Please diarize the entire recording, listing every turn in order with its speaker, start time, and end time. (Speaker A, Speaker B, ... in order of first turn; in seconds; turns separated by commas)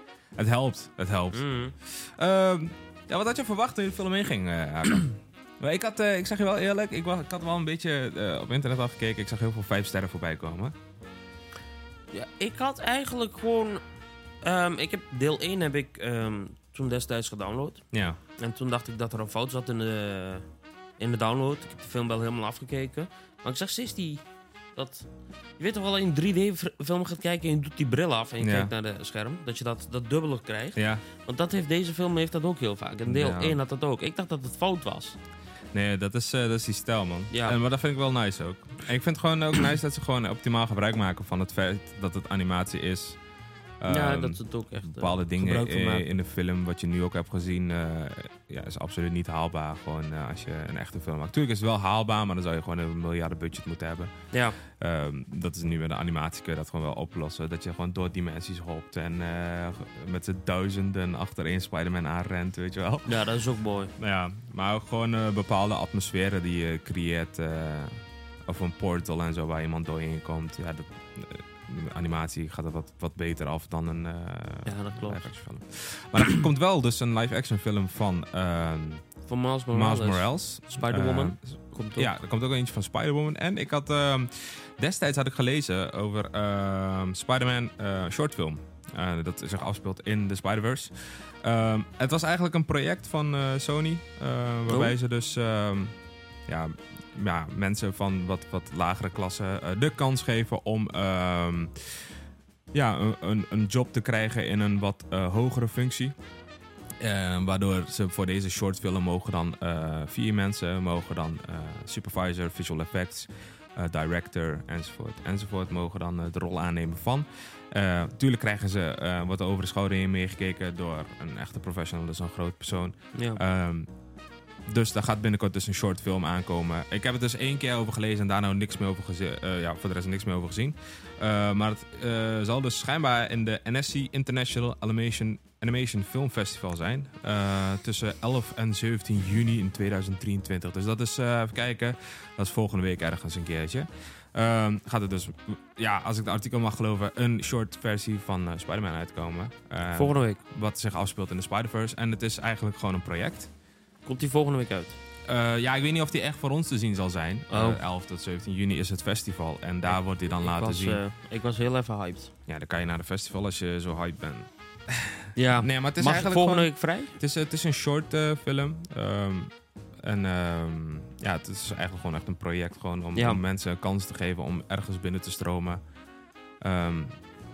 Speaker A: 0.4-10.8, Speaker B: 1.3-1.8, Speaker B: 12.1-13.8, Speaker B: 14.4-17.8, Speaker A: 17.9-18.2, Speaker B: 18.4-20.4, Speaker B: 21.0-24.2, Speaker B: 24.8-25.1, Speaker B: 25.6-35.2, Speaker A: 28.4-28.7, Speaker A: 30.8-31.0, Speaker A: 33.1-33.6, Speaker A: 35.7-43.2, Speaker B: 37.3-37.6, Speaker A: 43.8-54.1, Speaker B: 43.9-46.1, Speaker B: 54.3-54.6, Speaker A: 54.8-63.2, Speaker B: 63.1-63.9, Speaker A: 64.0-68.0, Speaker A: 68.5-79.0, Speaker B: 74.7-75.3, Speaker B: 79.3-82.1, Speaker A: 79.7-90.9, Speaker A: 91.4-95.9, Speaker B: 94.7-95.0, Speaker A: 96.5-101.7, Speaker A: 102.7-106.1, Speaker A: 107.0-123.9, Speaker B: 123.1-123.4, Speaker A: 124.7-153.5, Speaker B: 149.9-150.4, Speaker B: 154.1-155.0, Speaker A: 155.3-161.0, Speaker B: 157.5-157.8, Speaker B: 159.9-162.3, Speaker A: 162.5-169.5, Speaker B: 165.3-167.2, Speaker A: 170.0-175.8, Speaker B: 173.2-173.4, Speaker A: 176.6-177.1